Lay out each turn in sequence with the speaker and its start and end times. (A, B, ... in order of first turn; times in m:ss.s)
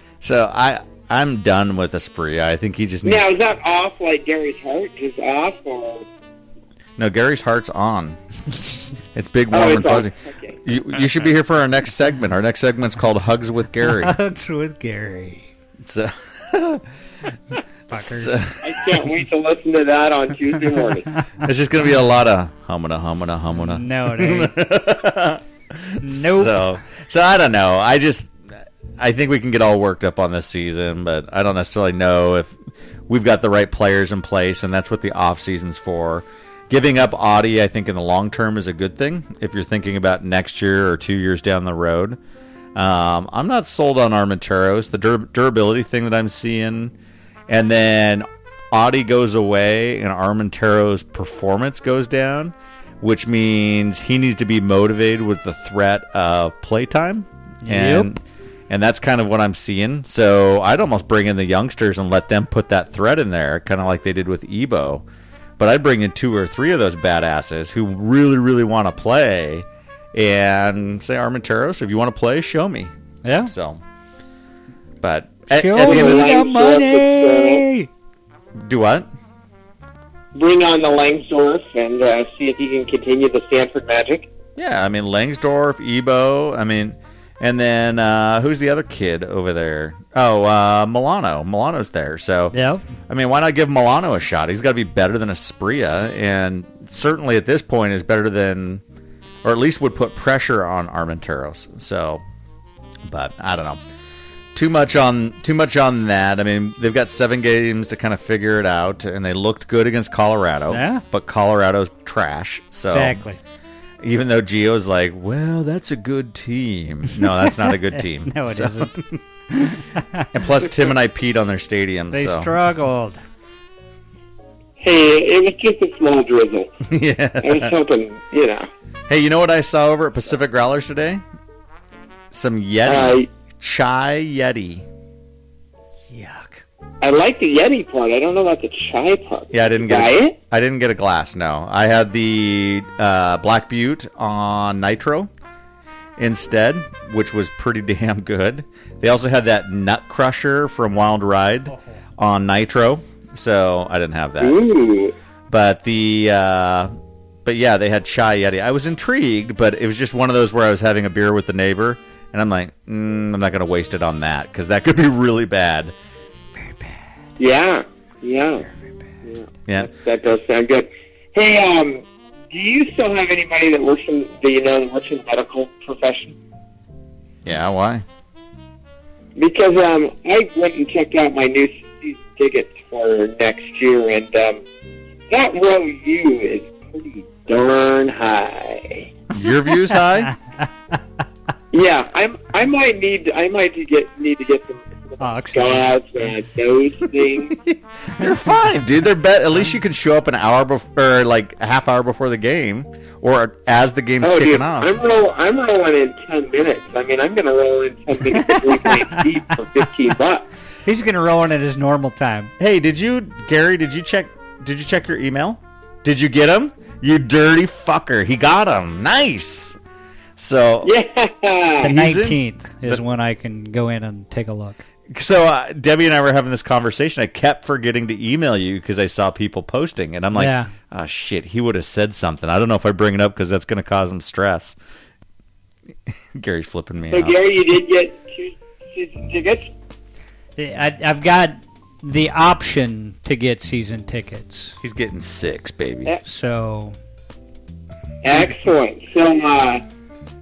0:00.2-0:03.2 A
0:03.0-0:06.1 B
0:07.0-0:08.2 A
0:09.1-0:14.2 A
0:09.5-0:10.6 B
0:13.8-0:15.5 C
0:15.8-0:16.8 A
0:17.9-0:18.4 C
0:17.9-0:18.6 A
0:18.6-0:21.1 B
0:21.4-0:28.3 A
0:23.5-0:24.6 C
0:26.0-0:26.7 C
0:29.0-0:32.6 A
0:33.1-0:42.2 A
0:42.8-0:46.9 A
0:47.5-1:05.0 A
0:57.6-0:58.1 C
1:05.6-1:12.9 A
1:13.2-1:13.5 C
1:13.5-1:13.8 A
1:15.0-1:16.3 A
1:15.5-1:17.9 C
1:15.8-1:17.6 B
1:18.6-1:19.1 A
1:20.4-1:24.3 B
1:24.6-1:32.6 A
1:32.5-1:32.8 C
1:33.1-1:38.8 A
1:39.4-1:42.2 A
1:43.1-1:43.8 A
1:44.5-1:53.2 A
1:50.7-1:51.0 C
1:52.9-1:53.4 C
1:54.0-1:59.2 A
1:57.2-1:59.0 C
1:59.5-2:00.3 C
2:00.3-2:02.5 A
2:02.1-2:03.2 C
2:04.8-2:06.7 B
2:06.8-2:07.7 A
2:07.4-2:08.7 B
2:09.1-2:11.2 A
2:12.3-2:14.9 A
2:12.8-2:13.3 B
2:16.1-2:16.6 C
2:17.0-2:20.4 B
2:19.5-2:25.3 A
2:26.2-2:34.6 A
2:34.4-2:35.2 B
2:35.5-2:36.9 A
2:37.4-2:46.0 A
2:47.4-2:48.7 B
2:49.2-2:56.4 B
2:57.4-2:58.0 A
2:59.4-3:04.6 B
3:05.3-3:09.1 B
3:09.3-3:10.3 A
3:10.3-3:10.7 C
3:11.7-3:17.6 B
3:15.2-3:16.0 C
3:17.6-3:24.9 A
3:24.2-3:30.5 B
3:28.4-3:29.2 C
3:30.8-3:32.5 C
3:32.6-3:39.8 A
3:40.4-3:40.9 A
3:40.8-3:41.9 B
3:41.8-3:43.0 A
3:41.8-3:44.8 C
3:45.1-3:54.8 A
3:50.3-3:50.7 C
3:56.1-3:57.4 A
3:57.1-3:59.7 B
4:00.6-4:04.8 C
4:04.8-4:06.1 A
4:06.2-4:07.0 C
4:08.2-4:09.8 B